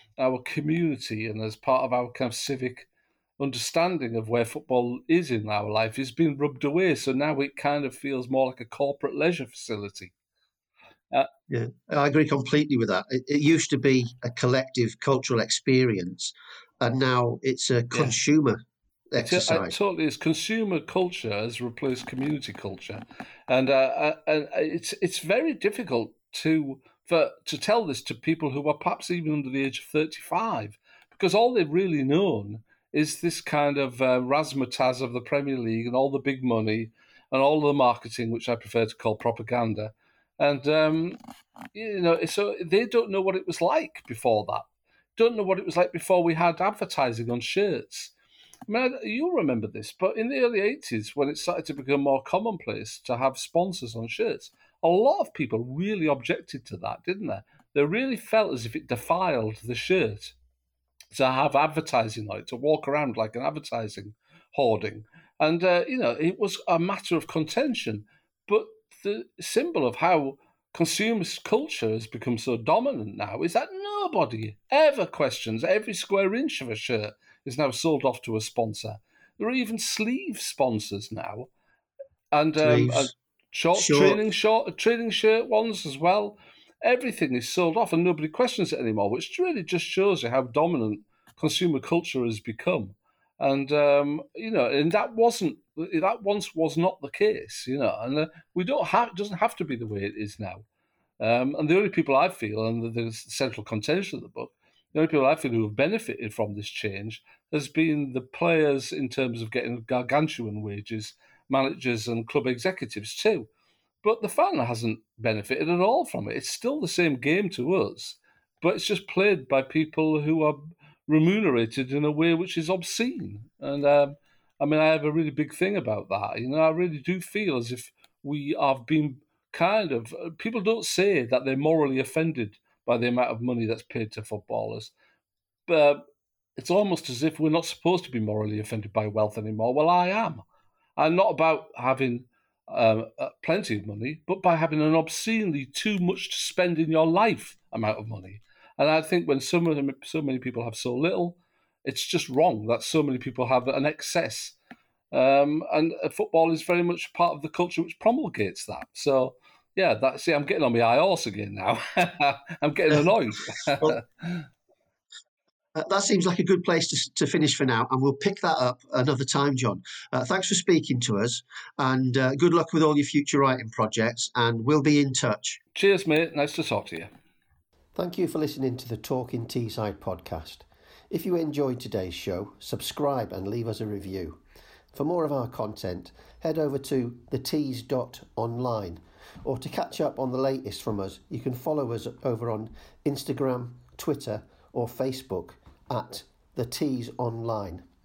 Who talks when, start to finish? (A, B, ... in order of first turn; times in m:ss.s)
0:00.2-0:10.1 A
0:11.5-0:18.6 B
0:19.1-0:19.7 B
0:19.2-0:41.2 A
0:41.7-0:44.6 A
0:45.2-0:48.1 A
0:48.7-1:00.3 A
1:01.1-1:21.5 A
1:22.3-1:40.6 A
1:22.6-1:23.1 B
1:23.8-1:24.2 B
1:41.2-1:53.5 A
1:54.0-2:14.9 A
2:15.7-2:16.0 A
2:16.6-2:20.4 A
2:21.0-2:34.6 A
2:35.1-2:44.5 A
2:45.7-2:55.6 B
2:55.7-2:57.1 A
2:58.0-3:04.4 B
3:04.9-3:17.8 B